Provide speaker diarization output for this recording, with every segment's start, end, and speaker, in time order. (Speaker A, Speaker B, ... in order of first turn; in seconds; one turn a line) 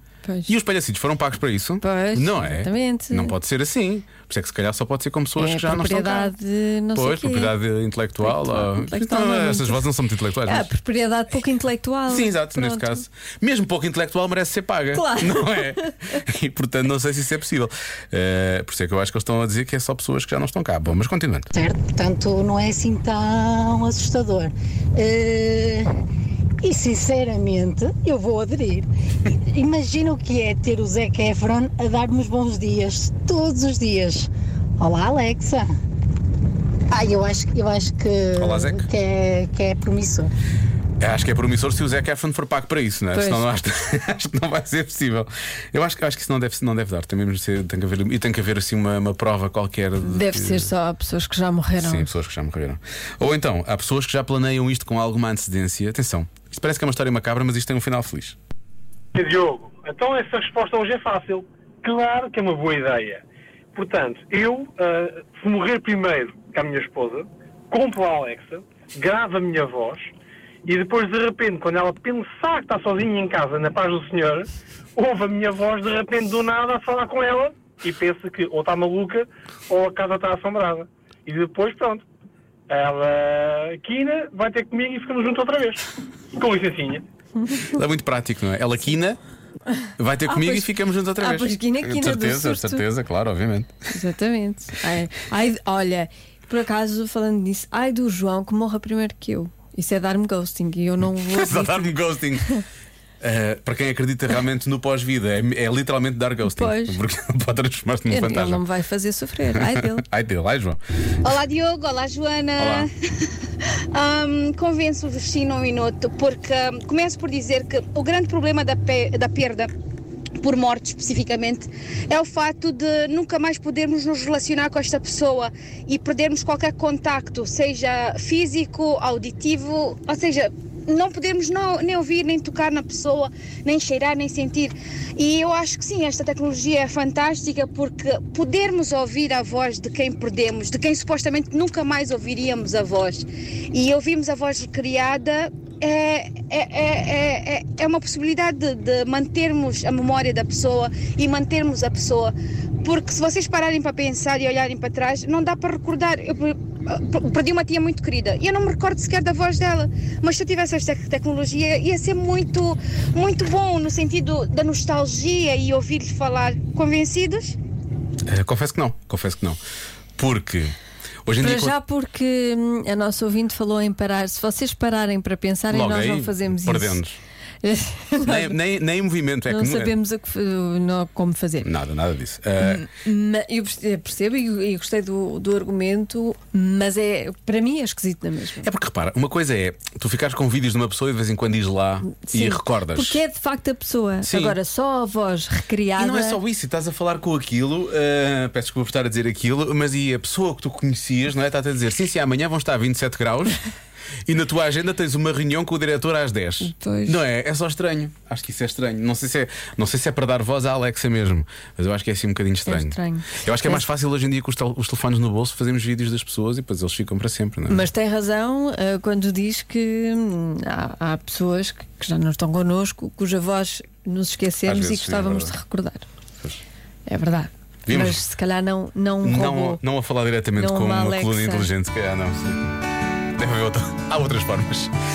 Speaker A: 0.2-0.5
Speaker B: 0.5-6.3
Speaker A: 1.8-3.3
Speaker A: 5.4-7.6
Speaker B: 7.0-10.7
Speaker A: 8.2-9.9
Speaker A: 10.4-13.0
Speaker B: 12.1-21.5
Speaker A: 14.9-15.7
Speaker C: 21.5-25.9
Speaker C: 26.6-28.9
Speaker C: 29.5-35.7
Speaker C: 36.9-40.3
Speaker B: 38.4-38.9
Speaker B: 41.0-50.7
Speaker A: 43.1-43.5
Speaker A: 50.0-52.1
Speaker B: 51.8-58.4
Speaker D: 59.1-63.2
Speaker D: 63.8-70.1
Speaker D: 70.7-82.0
Speaker D: 82.7-85.8
Speaker D: 86.4-87.0
Speaker B: 87.7-89.2
Speaker B: 90.0-93.7
Speaker A: 90.3-92.8
Speaker A: 93.9-102.0
Speaker B: 101.2-102.5
Speaker B: 103.2-108.7
Speaker A: 106.5-107.0
Speaker A: 108.1-110.0
Speaker B: 109.6-110.8
Speaker E: 111.2-112.9
Speaker B: 112.6-112.9
Speaker E: 113.9-119.7
Speaker E: 120.4-167.6
Speaker B: 168.3-169.6
Speaker B: 170.2-171.8
Speaker A: 171.4-177.0
Speaker B: 175.7-177.2
Speaker A: 177.6-178.6
Speaker B: 178.2-179.9
Speaker A: 179.5-181.7
Speaker B: 181.6-182.9
Speaker A: 182.6-188.7
Speaker B: 188.6-193.2
Speaker A: 192.2-196.4
Speaker B: 194.2-194.6
Speaker B: 196.0-203.6
Speaker B: 204.3-217.9
Speaker A: 206.6-207.2
Speaker A: 212.7-213.8
Speaker A: 217.7-226.1
Speaker B: 224.7-225.6
Speaker A: 227.1-229.8
Speaker B: 227.9-228.2
Speaker B: 229.2-232.6
Speaker A: 230.6-231.7
Speaker B: 233.4-234.9